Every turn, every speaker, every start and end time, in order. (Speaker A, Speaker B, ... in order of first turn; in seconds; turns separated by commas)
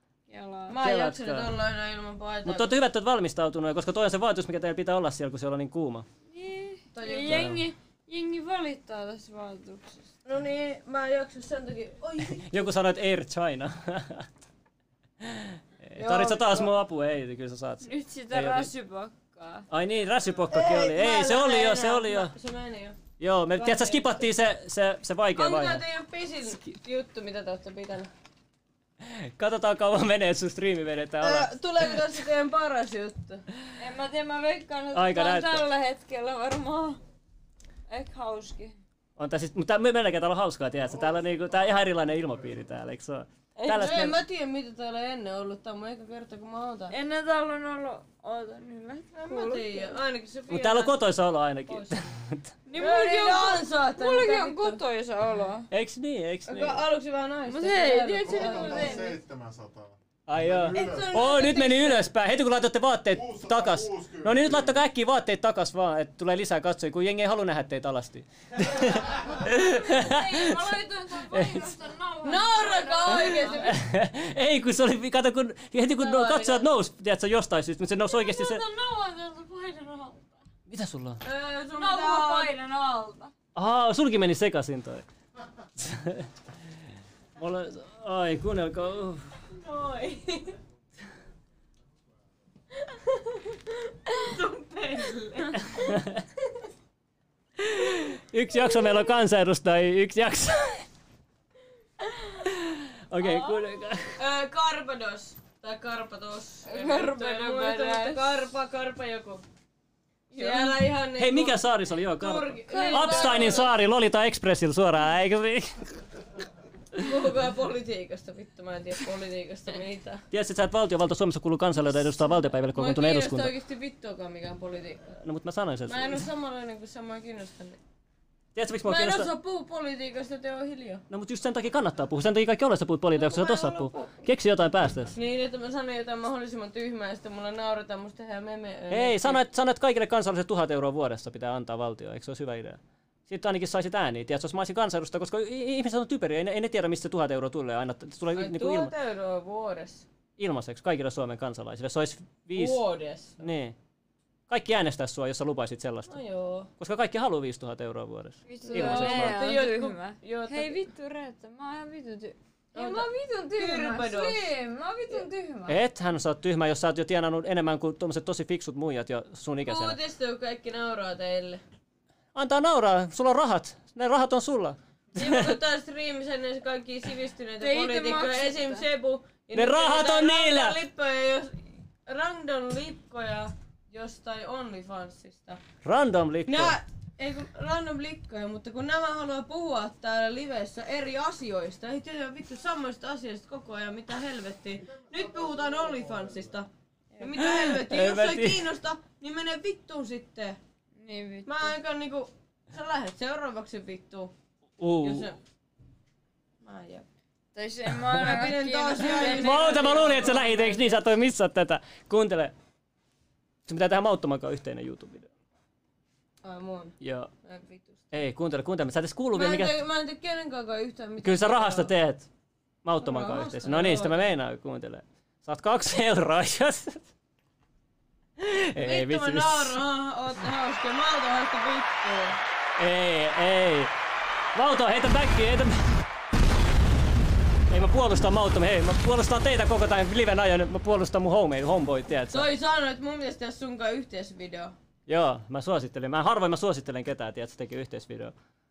Speaker A: 0.3-0.8, Speaker B: 0.7-2.8, Speaker C: 0.8-1.5, Speaker C: 2.4-6.0, Speaker A: 6.3-10.1, Speaker B: 6.9-7.6, Speaker C: 7.2-7.6, Speaker B: 10.2-12.7, Speaker C: 12.4-14.3, Speaker C: 15.2-18.7, Speaker B: 16.0-16.7, Speaker A: 17.8-19.6, Speaker C: 19.7-22.3, Speaker B: 20.5-23.0, Speaker C: 23.2-25.8, Speaker B: 23.6-24.2, Speaker B: 25.4-28.1, Speaker C: 29.0-31.9, Speaker B: 31.2-33.5, Speaker A: 33.8-37.0, Speaker C: 34.9-35.7, Speaker A: 37.9-38.8, Speaker C: 39.2-44.2, Speaker B: 43.6-46.9, Speaker A: 46.9-49.9, Speaker B: 49.1-50.9, Speaker C: 50.5-52.5, Speaker B: 51.7-52.1, Speaker A: 52.7-55.7, Speaker B: 52.8-54.8, Speaker C: 55.7-56.8, Speaker B: 56.5-59.1, Speaker A: 57.5-59.1, Speaker D: 58.2-61.1, Speaker C: 60.3-70.5, Speaker B: 60.6-62.1, Speaker D: 63.1-64.8, Speaker A: 69.4-73.7, Speaker C: 71.3-71.7, Speaker B: 72.2-73.8, Speaker C: 73.5-78.6, Speaker B: 76.0-76.6, Speaker A: 78.0-80.4, Speaker C: 80.7-81.2, Speaker B: 81.2-82.5, Speaker A: 81.8-83.3, Speaker C: 83.5-85.0, Speaker C: 85.8-86.3, Speaker C: 87.4-89.3, Speaker B: 89.5-90.5, Speaker B: 92.9-95.9, Speaker C: 95.5-96.2, Speaker C: 97.6-100.8, Speaker C: 102.4-104.2, Speaker A: 103.2-103.5, Speaker B: 104.1-109.4, Speaker A: 106.7-108.3, Speaker A: 110.3-110.7, Speaker B: 110.3-113.7, Speaker C: 111.2-116.0, Speaker A: 112.7-113.7, Speaker B: 116.9-120.2, Speaker C: 120.3-123.5, Speaker B: 122.7-125.2, Speaker C: 125.2-126.2, Speaker B: 125.8-127.8, Speaker C: 128.5-129.3, Speaker B: 128.8-131.0, Speaker C: 131.1-135.1, Speaker B: 133.1-134.1, Speaker B: 135.1-139.4, Speaker C: 138.9-148.9, Speaker B: 148.3-150.1, Speaker C: 150.4-152.8, Speaker B: 152.5-153.4, Speaker C: 153.4-153.8, Speaker C: 154.5-156.2, Speaker B: 156.1-156.7, Speaker C: 156.8-159.4, Speaker A: 158.4-165.8, Speaker B: 158.7-160.9, Speaker B: 162.7-164.5, Speaker C: 165.7-170.0, Speaker B: 169.7-171.6, Speaker C: 172.3-175.6, Speaker B: 175.2-185.6, Speaker A: 177.6-178.8, Speaker C: 179.5-180.8, Speaker C: 185.8-186.8, Speaker B: 186.5-196.7, Speaker B: 197.2-200.6, Speaker C: 197.3-198.7, Speaker A: 201.0-201.7, Speaker B: 201.4-204.3, Speaker C: 204.8-205.3, Speaker B: 205.0-205.4, Speaker B: 206.6-207.1, Speaker A: 207.5-210.0, Speaker B: 208.1-211.0, Speaker C: 209.0-212.5, Speaker C: 213.7-215.3, Speaker B: 216.4-218.1, Speaker C: 217.0-217.3, Speaker C: 218.1-219.8, Speaker B: 219.3-221.9, Speaker C: 221.2-222.3, Speaker C: 222.8-227.0, Speaker B: 223.0-224.3, Speaker C: 228.4-229.8, Speaker B: 228.8-232.4, Speaker C: 232.8-233.9, Speaker C: 234.5-236.0, Speaker C: 237.7-242.5, Speaker B: 242.3-244.7, Speaker C: 245.1-248.3